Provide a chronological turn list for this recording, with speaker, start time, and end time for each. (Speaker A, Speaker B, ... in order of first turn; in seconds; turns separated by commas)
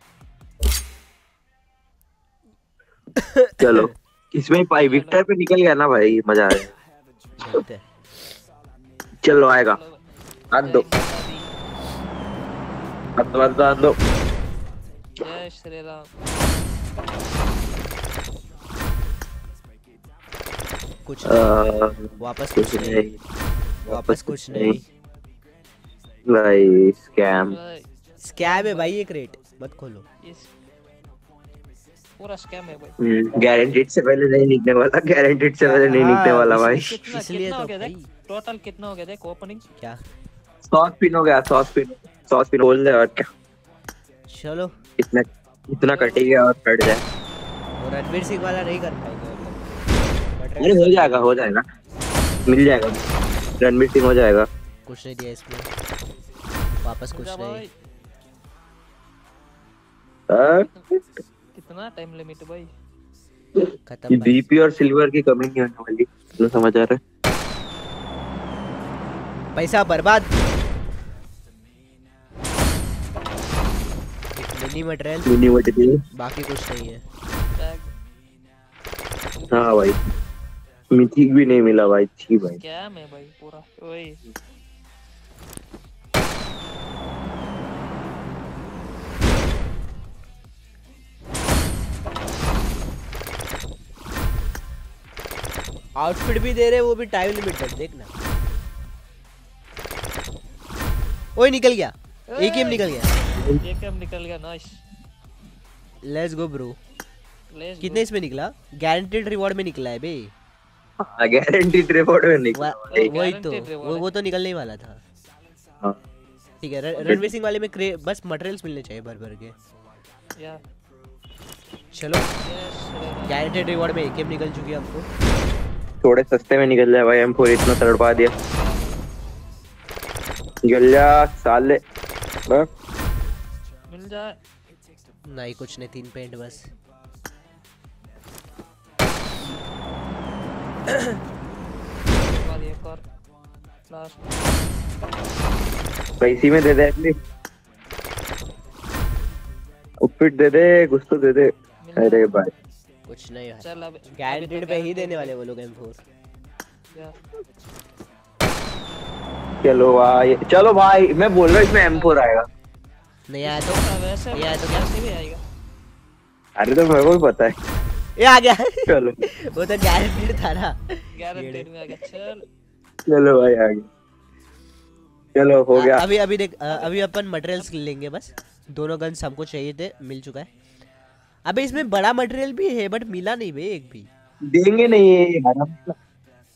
Speaker A: 3.2-3.9, Speaker B: 3.6-6.7, Speaker C: 4.8-5.2, Speaker A: 7.4-7.8, Speaker B: 9.2-9.8, Speaker C: 9.6-10.0, Speaker B: 10.5-10.8, Speaker C: 10.6-11.5, Speaker B: 13.2-14.0, Speaker C: 15.2-16.1, Speaker A: 21.1-23.1, Speaker B: 21.2-23.2, Speaker B: 23.9-24.8, Speaker A: 23.9-24.8, Speaker B: 26.3-27.6, Speaker C: 27.4-27.9, Speaker A: 28.2-30.0, Speaker C: 28.4-28.9, Speaker C: 30.2-30.5, Speaker C: 32.2-32.9, Speaker B: 33.0-36.9, Speaker A: 35.6-38.1, Speaker C: 36.7-39.6, Speaker B: 40.6-43.2, Speaker A: 44.3-44.7, Speaker B: 45.0-47.0, Speaker C: 45.9-46.3, Speaker A: 47.8-51.3, Speaker B: 50.6-51.6, Speaker C: 52.2-52.7, Speaker B: 52.5-53.0, Speaker B: 53.6-54.5, Speaker A: 54.9-55.7, Speaker A: 56.8-57.6, Speaker C: 57.1-57.7, Speaker B: 60.3-60.6, Speaker C: 61.5-62.7, Speaker B: 63.6-67.0, Speaker A: 63.9-64.4, Speaker A: 69.5-70.3, Speaker A: 74.3-75.3, Speaker B: 75.2-76.0, Speaker A: 76.2-77.0, Speaker C: 77.6-77.9, Speaker C: 79.4-79.8, Speaker B: 79.5-80.0, Speaker B: 80.9-82.6, Speaker C: 82.4-84.2, Speaker A: 96.0-98.1, Speaker A: 101.4-103.1, Speaker C: 102.3-104.8, Speaker B: 103.4-103.6, Speaker A: 106.0-106.8, Speaker C: 107.5-108.0, Speaker A: 107.8-110.3, Speaker B: 111.0-113.1, Speaker A: 112.5-115.0, Speaker C: 112.9-114.1, Speaker A: 116.6-119.5, Speaker B: 117.0-117.2, Speaker A: 121.9-122.3, Speaker C: 122.4-123.4, Speaker A: 123.3-125.1, Speaker B: 126.0-128.3, Speaker C: 128.5-129.0, Speaker B: 130.6-131.8, Speaker C: 133.9-134.3, Speaker A: 135.3-136.7, Speaker C: 142.2-143.0, Speaker C: 143.9-144.3, Speaker B: 146.2-147.2, Speaker B: 150.0-152.5, Speaker C: 151.8-152.3, Speaker A: 153.1-156.0, Speaker C: 153.6-155.3, Speaker B: 159.6-162.5, Speaker C: 161.8-162.2, Speaker A: 163.3-164.9, Speaker C: 163.4-165.4, Speaker B: 166.6-167.5, Speaker A: 168.2-171.7, Speaker B: 168.9-169.2, Speaker C: 171.2-172.4, Speaker B: 173.1-173.8, Speaker B: 175.3-176.0, Speaker A: 175.7-180.5, Speaker C: 176.7-177.1, Speaker A: 181.4-184.1, Speaker B: 184.5-185.9